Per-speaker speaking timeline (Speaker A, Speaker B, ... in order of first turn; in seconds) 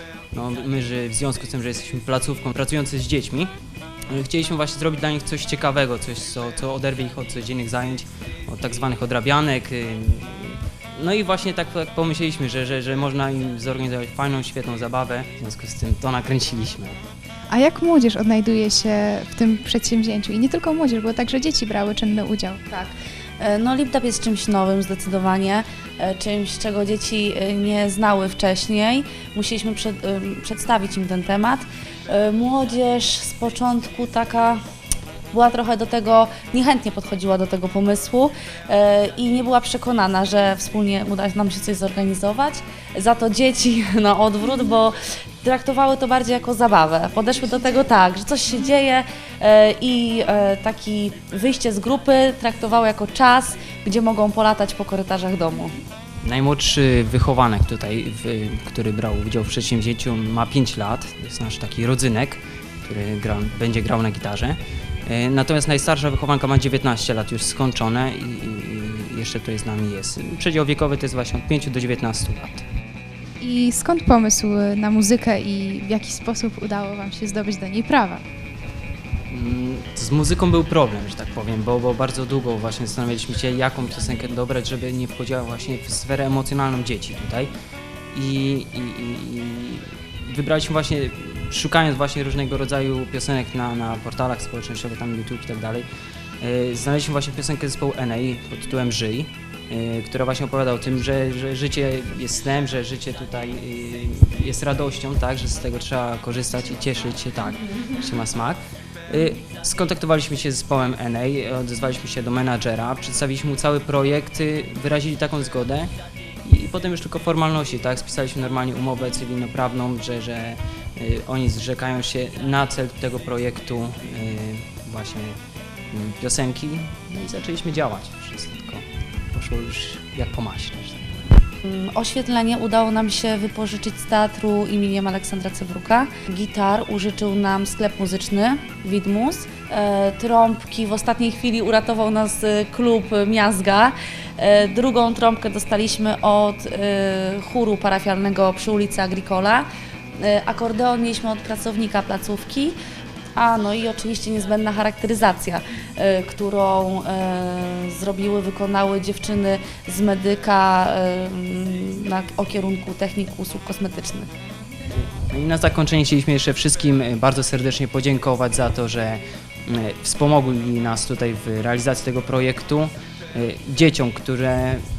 Speaker A: 0.3-3.5, 4.1-17.0, 56.2-72.7, 79.3-87.5, 88.1-95.9, 96.4-115.9, 116.4-125.4, 125.9-131.2, 164.9-174.8
Speaker B: 17.5-22.6, 73.4-78.2
Speaker C: 22.7-34.6, 35.3-55.7, 131.6-149.7, 150.2-152.8, 153.3-164.3